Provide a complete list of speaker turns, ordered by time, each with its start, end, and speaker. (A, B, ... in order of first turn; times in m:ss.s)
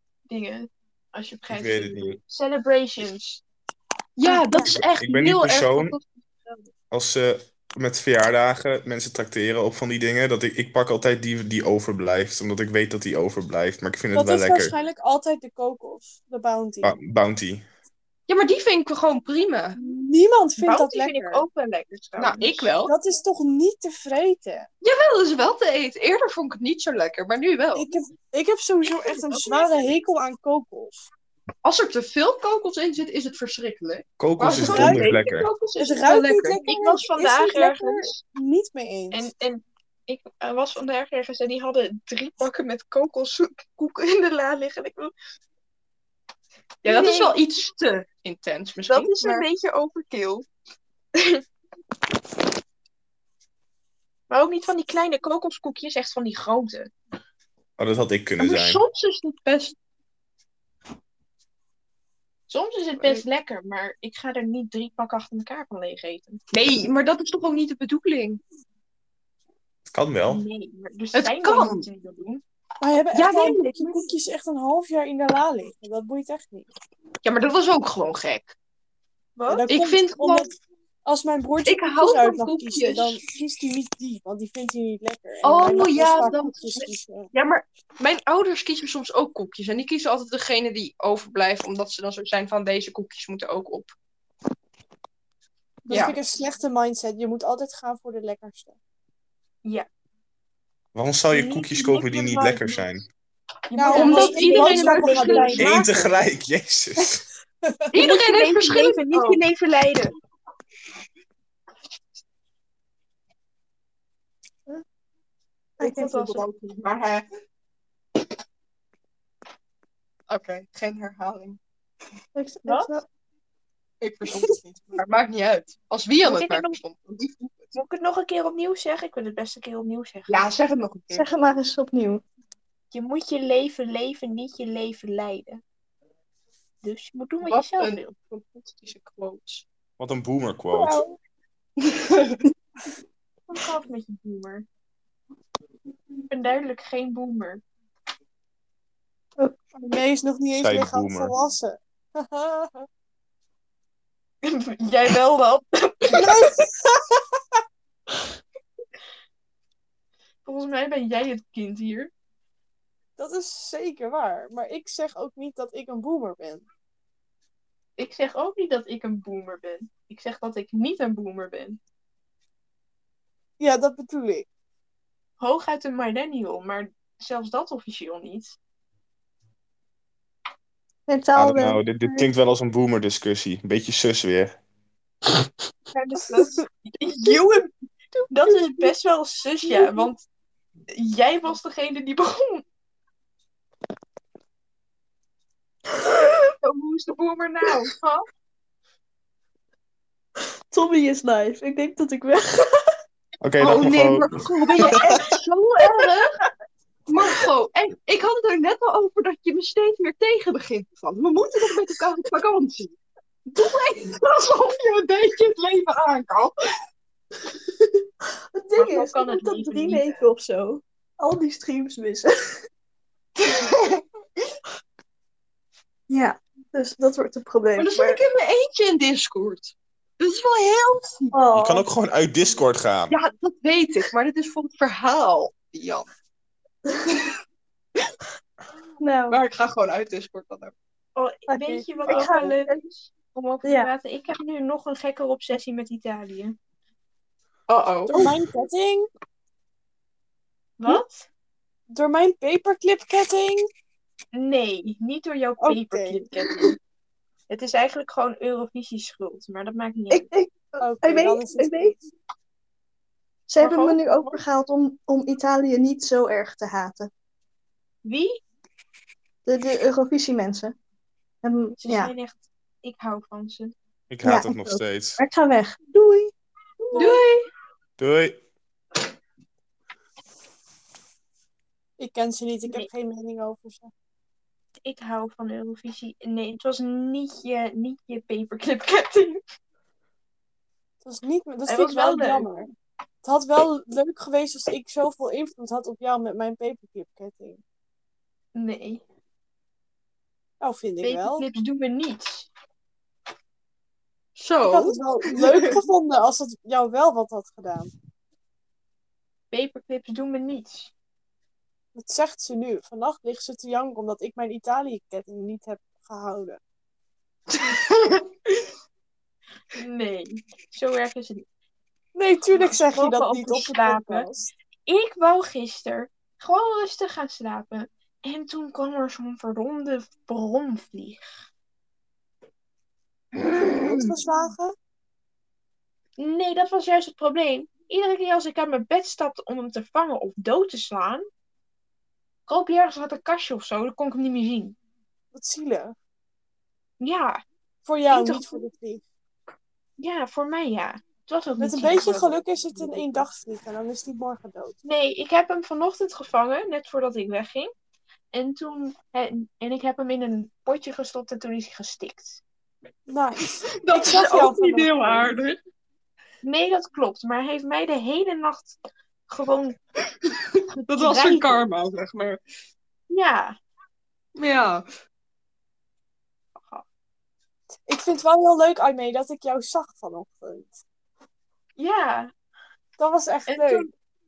0:00.3-0:03.4 A
0:01.5-0:02.2 B
0:04.2-0:06.0 C
0:04.6-0:06.0 B
0:06.9-0:14.7 B
0:14.1-0:17.0 D
0:16.8-0:17.6 B
0:18.3-0:19.8 C
0:19.8-0:21.4 D
0:20.6-0:22.7 A
0:22.2-0:22.9 C
0:22.8-0:24.7 D
0:24.8-0:27.9 C
0:27.7-0:31.0 D
0:28.9-0:29.7 C
0:31.6-0:36.7 C
0:34.2-0:35.5 B
0:34.6-0:35.2 D
0:35.8-0:39.3 D
0:36.6-0:38.1 A
0:39.1-0:45.1 A
0:46.8-0:47.3 A
0:46.8-0:49.5 C
0:48.9-0:50.5 A
0:51.2-0:51.4 A
0:54.3-0:56.9 A
0:57.8-0:58.8 B
0:58.4-0:59.8 C
1:02.5-1:06.4 A
1:06.5-1:08.4 C
1:09.9-1:10.4 B
1:10.3-1:12.4 A
1:11.1-1:11.9 C
1:12.8-1:16.7 D
1:13.1-1:14.0 C
1:17.2-1:18.5 C
1:19.4-1:19.7 A
1:19.5-1:20.5 D
1:19.7-1:20.5 C
1:21.0-1:27.3 D
1:21.6-1:23.2 C
1:25.4-1:33.9 C
1:35.9-1:38.8 D
1:35.9-1:36.2 C
1:41.0-1:43.1 B
1:41.3-1:43.0 A
1:43.7-1:45.9 A
1:43.8-1:45.8 D
1:43.9-1:46.2 C
1:45.6-1:47.2 B
1:47.9-1:49.4 C
1:47.9-1:50.1 A
1:55.8-1:56.2 E
1:55.8-1:56.4 A
1:55.9-1:57.2 C
2:00.3-2:01.6 C
2:02.4-2:03.0 E
2:02.6-2:02.9 A
2:04.0-2:07.7 C
2:06.2-2:06.8 A
2:07.7-2:10.5 A
2:10.3-2:11.3 C
2:11.1-2:12.2 E
2:12.9-2:15.6 A
2:16.8-2:18.0 A
2:17.4-2:19.6 C
2:20.0-2:21.0 B
2:20.7-2:21.1 E
2:21.8-2:22.4 C
2:23.5-2:24.7 A
2:26.3-2:27.6 A
2:29.4-2:29.7 E
2:29.7-2:32.9 D
2:30.6-2:31.3 B
2:34.4-2:36.6 A
2:36.1-2:37.0 D
2:40.4-2:42.1 A
2:43.2-2:46.6 D
2:48.0-2:51.8 A
2:53.6-2:54.5 D
2:55.4-2:58.6 A
3:01.1-3:02.3 E
3:01.4-3:04.6 B
3:05.9-3:07.7 A
3:08.3-3:10.2 A
3:08.4-3:08.9 E
3:09.6-3:10.1 E
3:10.9-3:12.6 A
3:16.6-3:18.2 A
3:20.7-3:22.8 E
3:23.4-3:25.3 B
3:23.6-3:26.4 C
3:27.1-3:33.0 C
3:33.5-3:36.6 C
3:38.5-3:42.6 E
3:38.8-3:40.3 A
3:43.4-3:44.0 C
3:46.1-3:48.2 E
3:47.8-3:51.4 C
3:51.3-3:51.9 E
3:51.5-3:53.2 B
3:53.1-3:56.1 C
3:59.0-3:59.4 E
3:59.3-4:00.7 C
4:01.2-4:06.6 A
4:01.5-4:02.9 E
4:03.6-4:03.9 E
4:07.7-4:08.3 C
4:08.1-4:09.1 D
4:10.8-4:11.3 A
4:11.9-4:13.7 D
4:14.3-4:16.8 A
4:15.6-4:16.6 D
4:17.5-4:20.3 A
4:20.1-4:22.0 E
4:20.8-4:22.0 D
4:23.5-4:27.1 E
4:23.6-4:24.4 A
4:28.0-4:28.4 A
4:29.5-4:30.8 E
4:31.4-4:32.1 E
4:31.8-4:33.7 A
4:34.1-4:35.2 B
4:34.2-4:36.3 E
4:36.9-4:37.5 C
4:36.9-4:37.2 A
4:38.0-4:38.4 B
4:42.0-4:43.9 D
4:44.8-4:49.4 A
4:51.0-4:52.7 D
4:51.7-4:52.5 A
4:53.2-4:57.6 D
4:58.6-4:59.0 A
5:00.6-5:01.4 D
5:01.0-5:02.5 A
5:04.4-5:05.8 C
5:04.6-5:07.9 D
5:09.5-5:10.9 A
5:12.0-5:16.6 D
5:17.6-5:18.2 C
5:19.7-5:21.4 A
5:22.2-5:24.5 D
5:22.5-5:24.3 A
5:24.9-5:31.4 A
5:33.6-5:34.8 D
5:36.2-5:41.3 A
5:42.5-5:44.8 A
5:45.3-5:46.0 D
5:47.0-5:47.4 A
5:47.8-5:49.0 D
5:48.1-5:48.6 A
5:50.0-5:53.3 A
5:51.6-5:54.8 D
5:54.9-5:57.7 A
5:58.3-6:02.4 A
6:03.1-6:05.4 D
6:03.7-6:05.6 C
6:06.4-6:09.8 A
6:10.9-6:12.4 C
6:10.9-6:11.7 A
6:13.1-6:13.6 A
6:14.4-6:14.8 C
6:16.6-6:16.8 A
6:17.9-6:20.8 D
6:21.8-6:22.3 A
6:23.0-6:23.9 D
6:23.5-6:23.9 A